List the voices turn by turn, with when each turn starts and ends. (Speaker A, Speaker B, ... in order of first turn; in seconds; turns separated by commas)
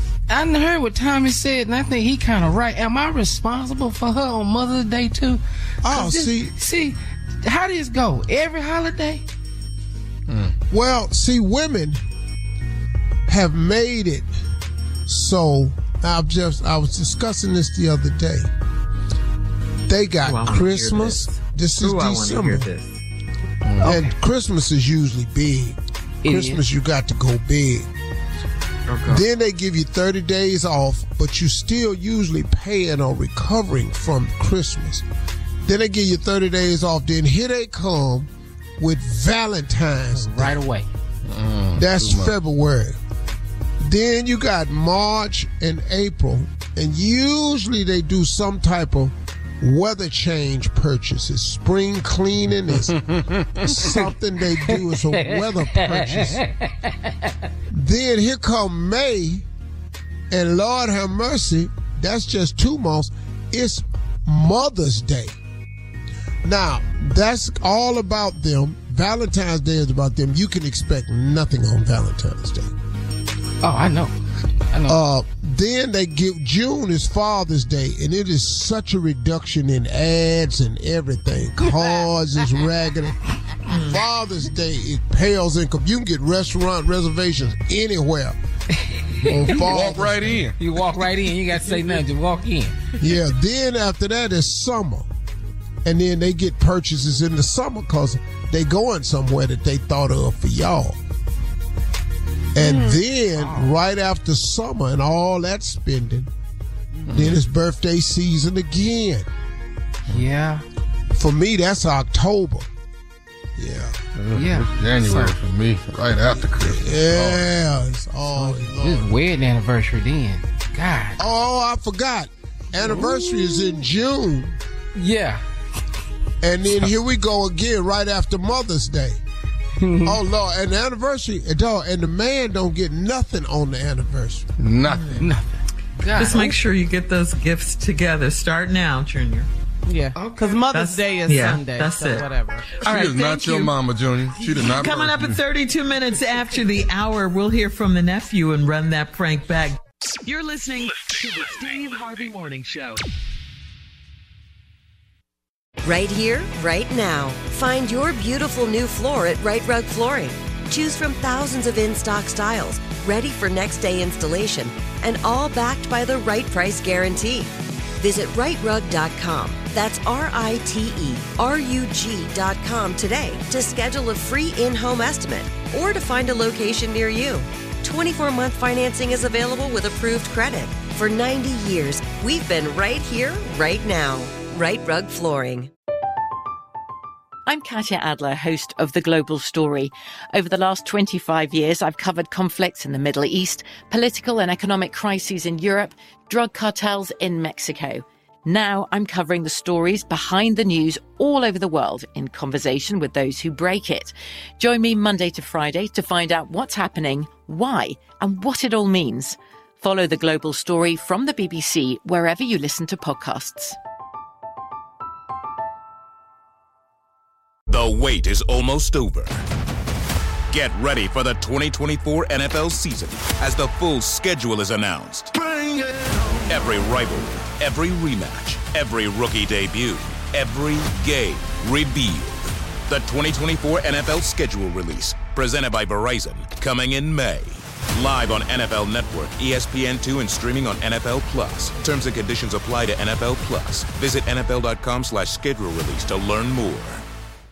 Speaker A: 0.3-9.2, Speaker B: 5.8-6.5, Speaker B: 10.7-12.0, Speaker B: 13.3-14.3, Speaker B: 15.1-18.5, Speaker B: 19.9-22.7, Speaker C: 20.2-23.0, Speaker A: 23.8-24.1, Speaker B: 23.8-27.9, Speaker A: 26.2-26.6, Speaker C: 28.9-29.2, Speaker B: 29.1-35.0, Speaker B: 35.6-40.6, Speaker A: 40.1-40.9, Speaker D: 41.3-42.3, Speaker B: 41.8-43.0, Speaker B: 43.8-53.0, Speaker B: 53.6-56.4, Speaker A: 54.7-57.1, Speaker B: 57.7-59.5, Speaker B: 60.3-65.3, Speaker B: 66.5-72.7, Speaker A: 73.6-74.1, Speaker A: 74.7-75.0, Speaker B: 74.9-88.4, Speaker C: 83.7-84.0, Speaker A: 88.8-89.7, Speaker B: 89.2-90.5, Speaker D: 89.6-91.0, Speaker A: 90.6-92.9, Speaker B: 93.0-95.1, Speaker B: 95.8-101.0, Speaker B: 102.5-106.3, Speaker A: 102.7-103.7, Speaker B: 107.1-109.3, Speaker D: 107.1-107.4, Speaker A: 110.1-110.6, Speaker B: 111.2-112.7, Speaker B: 113.6-113.9, Speaker D: 114.2-117.5, Speaker A: 114.3-115.4, Speaker B: 116.6-119.1, Speaker A: 118.3-121.2, Speaker B: 121.2-124.6, Speaker A: 125.0-125.4, Speaker B: 126.4-129.2, Speaker A: 129.8-130.1, Speaker B: 130.0-134.4, Speaker D: 134.6-135.3, Speaker C: 134.9-135.2, Speaker A: 135.2-136.6, Speaker C: 136.2-139.5, Speaker E: 139.9-142.7, Speaker C: 140.4-143.7, Speaker D: 142.8-145.4, Speaker C: 144.4-153.0, Speaker F: 155.8-185.7, Speaker G: 187.5-213.8, Speaker H: 217.7-219.4, Speaker H: 220.5-225.3, Speaker H: 226.5-247.1